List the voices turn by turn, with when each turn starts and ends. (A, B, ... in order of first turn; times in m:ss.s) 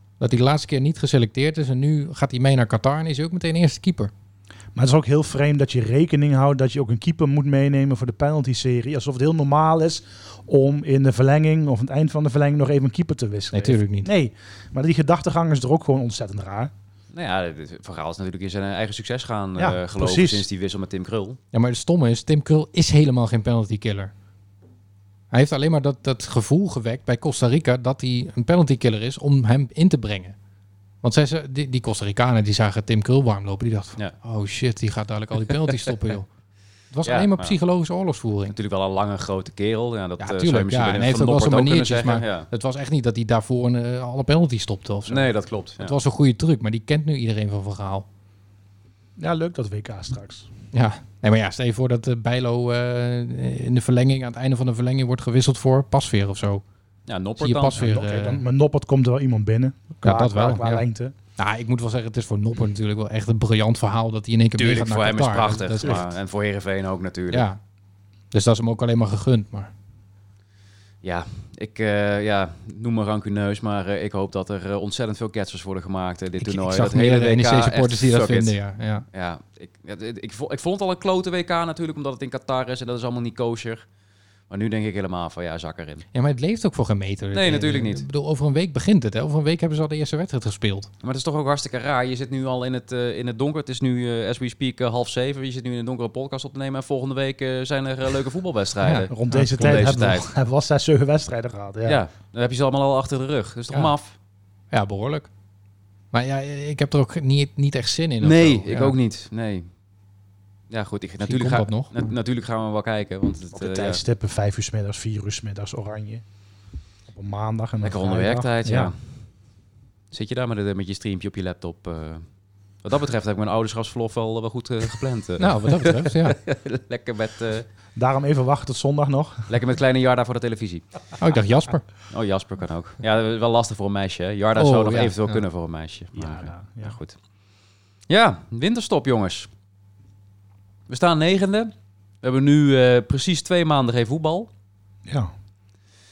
0:00.2-0:04.1 A
0:04.8-0:16.7 B
0:13.5-0:14.1 A
0:17.1-0:21.4 C
0:19.6-0:20.4 B
0:21.5-0:24.1 A
0:25.3-0:30.4 A
0:31.0-0:36.3 A
0:36.9-0:38.6 A
0:37.0-0:37.6 C
0:38.5-0:42.5 C
0:40.2-0:48.1 A
0:45.1-0:46.0 C
0:49.2-0:50.5 B
0:50.7-0:56.6 A
0:57.1-0:57.8 C
0:57.4-0:58.4 A
0:57.8-1:01.1 B
1:00.0-1:00.8 A
1:01.4-1:06.2 A
1:04.6-1:07.5 C
1:07.3-1:07.6 A
1:08.3-1:09.7 A
1:11.0-1:18.6 C
1:16.4-1:19.0 A
1:19.1-1:23.9 C
1:24.5-1:26.1 C
1:26.1-1:30.9 A
1:27.3-1:28.1 C
1:31.0-1:40.3 C
1:38.8-1:40.0 A
1:39.1-1:42.0 B
1:41.9-1:44.2 C
1:44.7-1:45.3 A
1:46.1-1:49.0 A
1:48.2-1:49.7 C
1:50.7-1:54.0 C
1:51.2-1:52.1 A
1:53.5-1:56.2 B
1:57.1-1:58.9 B
1:57.8-1:59.0 C
2:00.1-2:02.2 C
2:02.8-2:07.7 C
2:05.4-2:06.4 A
2:08.0-2:09.5 B
2:09.5-2:10.8 C
2:11.2-2:11.8 A
2:12.1-2:17.2 C
2:14.6-2:15.4 A
2:16.2-2:17.0 B
2:18.1-2:19.5 C
2:20.9-2:24.5 C
2:25.1-2:25.3 B